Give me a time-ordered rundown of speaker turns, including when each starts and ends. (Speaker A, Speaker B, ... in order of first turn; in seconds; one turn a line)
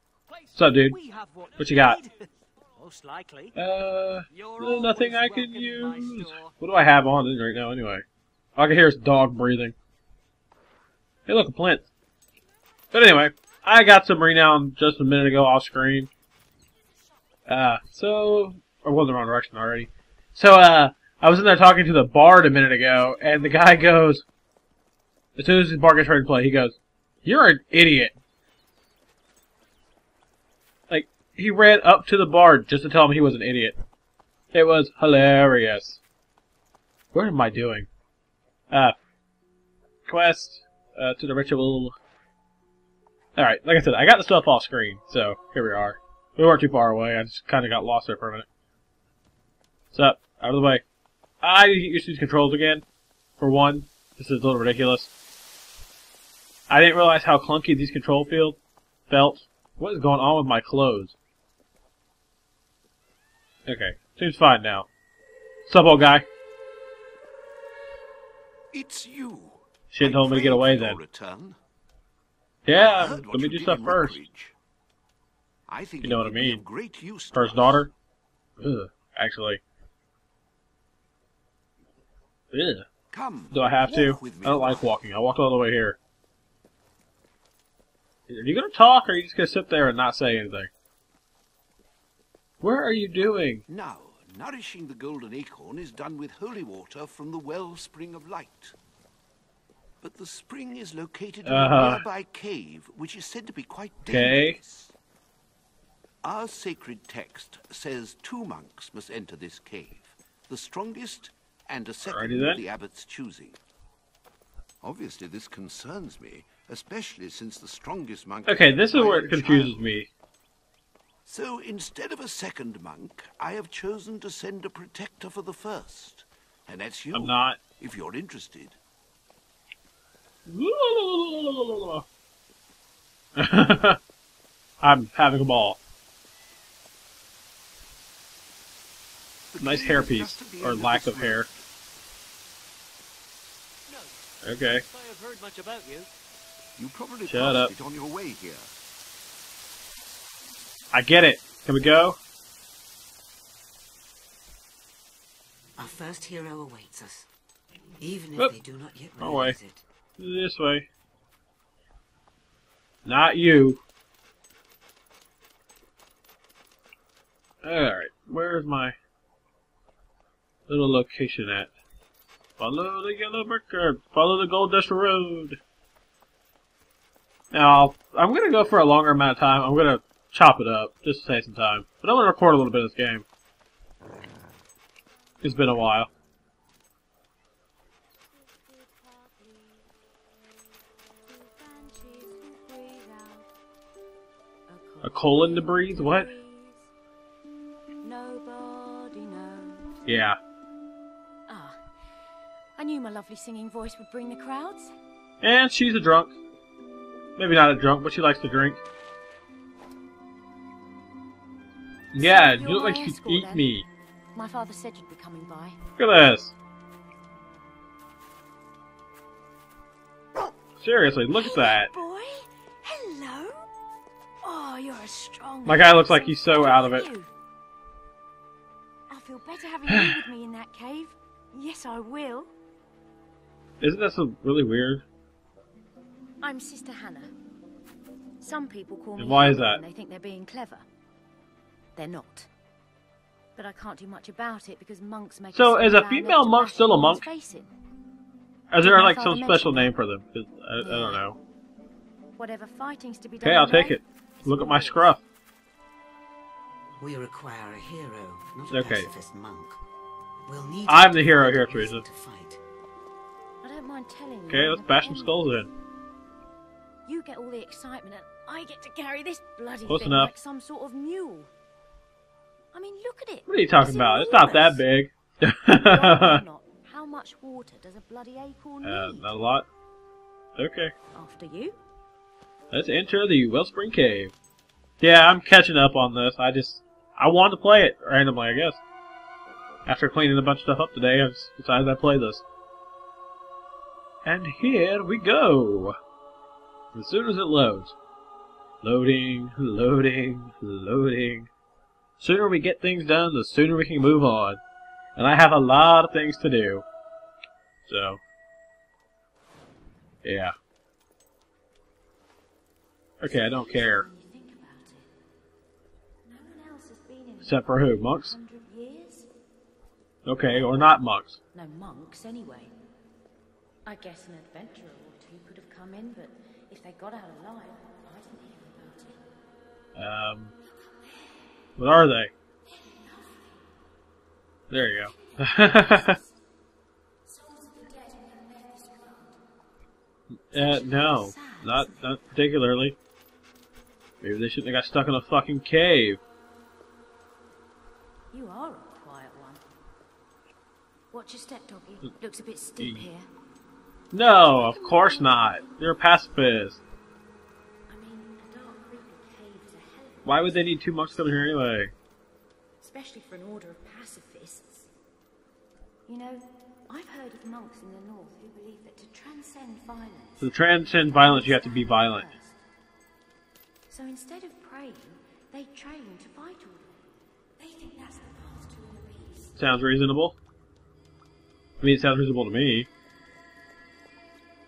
Speaker A: 0.3-3.5
Speaker B: 0.6-1.0
Speaker B: 1.6-2.0
Speaker B: 3.5-8.1
Speaker A: 4.3-6.5
Speaker B: 8.6-9.8
Speaker B: 11.3-11.9
Speaker B: 12.9-16.1
Speaker B: 17.5-24.2
Speaker B: 25.4-28.1
Speaker B: 30.9-33.8
Speaker B: 34.5-36.0
Speaker B: 37.1-37.9
Speaker B: 38.7-39.0
Speaker B: 40.1-42.0
Speaker B: 43.4-48.5
Speaker B: 49.9-50.8
Speaker B: 51.4-52.9
Speaker B: 53.4-55.1
Speaker B: 56.7-58.6
Speaker B: 59.1-61.1
Speaker B: 63.7-64.9
Speaker B: 65.7-66.3
Speaker C: 68.7-71.6
Speaker B: 69.9-71.0
Speaker B: 72.7-74.2
Speaker C: 72.7-74.6
Speaker C: 75.7-77.9
Speaker B: 76.0-76.6
Speaker B: 77.3-77.9
Speaker B: 78.6-79.6
Speaker B: 82.5-82.9
Speaker C: 83.1-84.9
Speaker B: 83.5-86.0
Speaker B: 88.3-90.7
Speaker B: 92.6-93.6
Speaker C: 93.7-98.8
Speaker C: 100.0-105.0
Speaker B: 101.5-102.0
Speaker B: 104.1-104.6
Speaker C: 106.2-113.6
Speaker B: 112.1-112.6
Speaker C: 114.8-119.9
Speaker B: 118.5-120.1
Speaker C: 121.3-128.8
Speaker B: 127.1-127.6
Speaker B: 130.5-132.1
Speaker B: 133.4-134.0
Speaker B: 134.8-135.8
Speaker C: 139.5-141.6
Speaker B: 139.6-141.5
Speaker A: 143.9-146.1
Speaker B: 144.4-144.8
Speaker C: 146.8-148.7
Speaker B: 147.3-147.7
Speaker B: 150.9-152.2
Speaker D: 155.8-157.3
Speaker D: 158.0-159.8
Speaker B: 159.2-159.6
Speaker B: 160.2-160.9
Speaker B: 163.1-163.8
Speaker B: 167.6-169.0
Speaker B: 170.7-171.7
Speaker B: 172.6-175.6
Speaker B: 177.5-183.2
Speaker B: 185.4-186.1
Speaker E: 188.5-189.8
Speaker E: 191.3-193.5
Speaker E: 194.7-196.9
Speaker B: 195.0-196.3
Speaker E: 198.0-200.1
Speaker B: 200.1-200.4
Speaker E: 201.5-201.8
Speaker E: 202.8-204.9
Speaker B: 205.4-206.3
Speaker B: 207.4-208.8
Speaker B: 212.1-213.9
Speaker E: 212.2-213.7
Speaker E: 214.3-215.8
Speaker B: 216.0-216.6
Speaker B: 220.8-221.9
Speaker E: 221.3-223.7
Speaker E: 224.4-227.3
Speaker B: 225.7-227.1
Speaker E: 229.1-232.5
Speaker B: 229.9-230.2
Speaker B: 233.8-235.0
Speaker E: 236.4-237.3
Speaker E: 238.4-240.9
Speaker B: 239.2-239.8
Speaker E: 242.0-242.5
Speaker E: 243.6-247.7
Speaker B: 245.5-247.3
Speaker B: 248.7-251.4
Speaker E: 248.8-250.0
Speaker E: 250.8-251.2
Speaker E: 252.4-255.2
Speaker B: 253.4-255.2
Speaker D: 257.0-259.8
Speaker B: 258.7-259.1
Speaker D: 260.5-262.6
Speaker B: 260.9-262.0
Speaker E: 263.6-265.4
Speaker B: 264.5-265.7
Speaker E: 267.1-271.5
Speaker B: 269.9-270.3
Speaker E: 272.7-274.8
Speaker B: 273.5-276.4
Speaker E: 275.8-279.3
Speaker B: 278.8-279.7
Speaker B: 280.6-280.9
Speaker E: 281.1-281.8
Speaker B: 282.7-284.3
Speaker B: 285.0-288.8
Speaker B: 289.9-292.4
Speaker B: 294.2-296.0
Speaker B: 296.9-297.9
Speaker B: 298.8-301.5
Speaker B: 302.2-304.6
Speaker B: 305.2-306.9
Speaker B: 307.9-308.2
Speaker B: 310.2-310.5
Speaker B: 313.2-314.1
Speaker E: 313.3-315.1
Speaker E: 316.2-319.3
Speaker B: 317.4-318.4
Speaker B: 320.2-321.4
Speaker E: 321.5-322.7
Speaker E: 323.9-329.2
Speaker B: 329.9-330.5
Speaker E: 330.8-331.4
Speaker B: 331.8-332.3
Speaker E: 332.6-333.6
Speaker B: 334.7-336.2
Speaker E: 335.1-336.3
Speaker E: 337.3-339.4
Speaker B: 340.5-343.0
Speaker E: 340.6-342.2
Speaker B: 344.2-346.2
Speaker E: 348.3-349.6
Speaker E: 351.1-353.3
Speaker B: 354.1-356.8
Speaker E: 354.5-355.8
Speaker E: 357.9-360.9
Speaker B: 360.2-361.9
Speaker E: 362.8-364.9
Speaker E: 366.1-372.6
Speaker B: 370.4-372.3
Speaker E: 373.9-377.1
Speaker E: 377.6-379.6
Speaker B: 379.6-380.4
Speaker B: 381.8-382.9